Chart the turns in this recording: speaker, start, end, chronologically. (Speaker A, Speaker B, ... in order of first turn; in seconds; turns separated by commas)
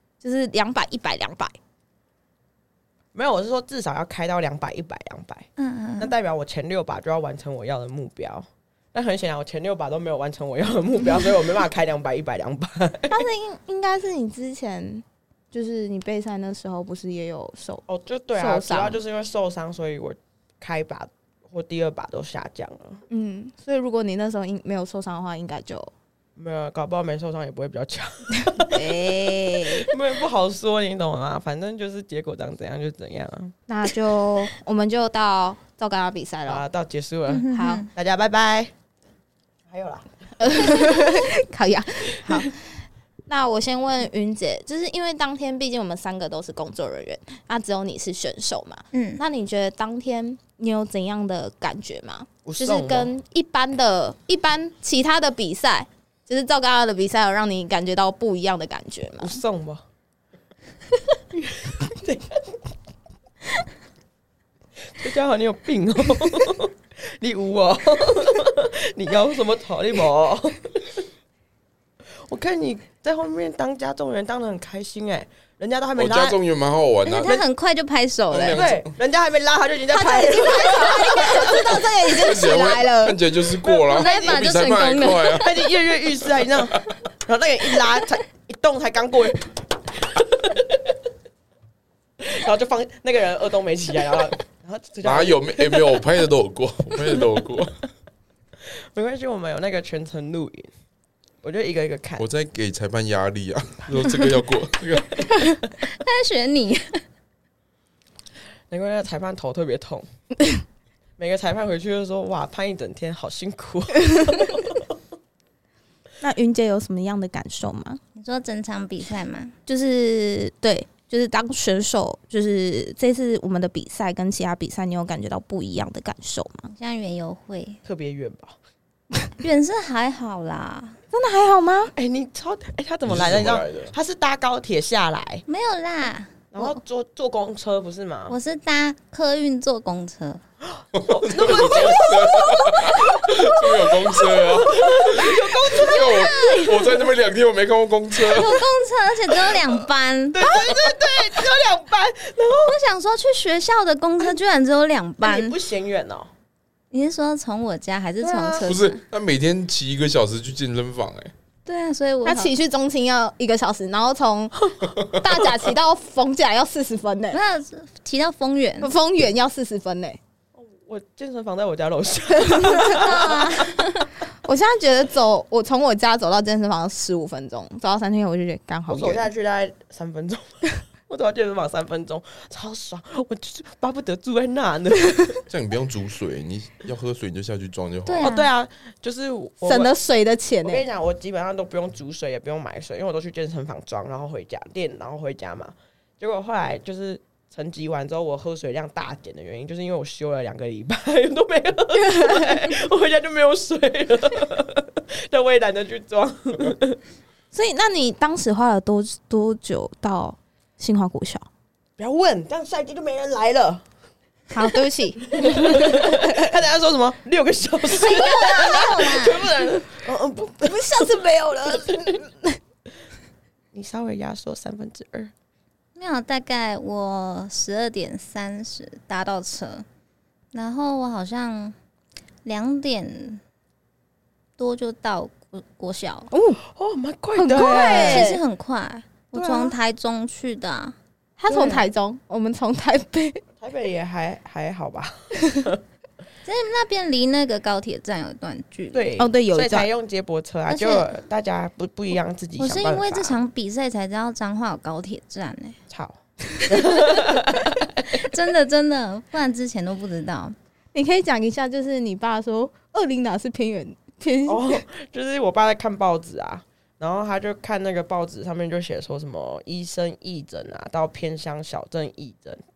Speaker A: 0.2-1.6, Speaker B: 3.1-5.5, Speaker C: 5.6-6.1, Speaker B: 6.0-13.2, Speaker A: 13.1-19.0, Speaker B: 17.9-23.0, Speaker A: 23.1-25.9, Speaker B: 26.4-29.1, Speaker A: 28.6-29.9, Speaker B: 29.7-33.5, Speaker A: 33.7-36.6, Speaker B: 36.5-38.7, Speaker C: 37.3-37.9, Speaker A: 37.5-37.9, Speaker B: 39.7-41.1, Speaker A: 40.4-42.6, Speaker A: 43.3-59.4, Speaker C: 48.9-49.2, Speaker B: 52.5-53.1, Speaker B: 59.2-59.8, Speaker B: 61.3-62.6, Speaker B: 65.0-71.0, Speaker B: 72.3-76.4, Speaker D: 75.9-77.3, Speaker C: 77.0-78.7, Speaker D: 78.3-78.9, Speaker B: 78.5-81.9, Speaker A: 79.9-83.2, Speaker D: 81.5-85.6, Speaker B: 83.6-84.4, Speaker C: 83.9-85.5, Speaker B: 85.3-91.0, Speaker B: 92.2-96.0, Speaker D: 95.0-97.8, Speaker B: 98.9-100.7, Speaker B: 101.4-102.3, Speaker D: 102.2-105.2, Speaker C: 105.9-107.0, Speaker B: 108.7-110.1, Speaker B: 111.2-114.9, Speaker A: 116.2-118.0, Speaker C: 118.2-119.5, Speaker A: 119.7-126.7, Speaker C: 126.7-127.8, Speaker B: 127.8-128.6, Speaker C: 129.4-131.0, Speaker A: 131.1-131.9, Speaker B: 132.0-135.4, Speaker D: 133.1-133.9, Speaker C: 135.5-136.8, Speaker B: 136.5-138.4, Speaker C: 138.3-140.4, Speaker B: 140.8-146.7, Speaker D: 140.9-148.6, Speaker C: 145.8-147.0, Speaker C: 148.2-150.5, Speaker B: 150.3-152.8, Speaker C: 152.6-155.6, Speaker B: 155.2-156.3, Speaker C: 156.9-159.0, Speaker B: 158.2-158.7, Speaker D: 158.6-161.3, Speaker C: 161.7-162.5, Speaker A: 162.2-167.4, Speaker D: 164.9-165.5, Speaker C: 167.3-168.9, Speaker A: 168.8-170.2, Speaker B: 170.6-173.7, Speaker A: 172.4-172.9, Speaker C: 172.7-174.1, Speaker A: 174.4-179.3, Speaker B: 178.9-185.4, Speaker D: 185.5-188.3, Speaker C: 188.1-188.5, Speaker B: 188.2-189.9, Speaker A: 189.6-190.8, Speaker B: 190.6-207.0, Speaker A: 202.2-202.5, Speaker A: 207.5-211.5, Speaker B: 212.0-213.8, Speaker A: 214.5-216.4, Speaker B: 215.3-222.2, Speaker C: 217.9-219.4, Speaker A: 220.6-222.6, Speaker B: 223.7-225.3, Speaker C: 226.0-229.8, Speaker C: 230.5-231.8, Speaker C: 232.4-233.4, Speaker C: 234.6-236.3, Speaker A: 236.3-236.6, Speaker B: 236.7-238.3, Speaker A: 237.4-238.4, Speaker C: 237.6-241.0, Speaker B: 239.3-239.8, Speaker A: 241.4-243.4, Speaker B: 241.5-241.9, Speaker B: 243.6-245.8, Speaker C: 246.4-249.1, Speaker B: 248.9-253.4, Speaker A: 249.2-249.9, Speaker C: 250.7-251.1, Speaker C: 252.6-255.8, Speaker B: 255.9-258.2, Speaker C: 258.1-260.6, Speaker A: 260.9-264.8, Speaker B: 264.5-272.6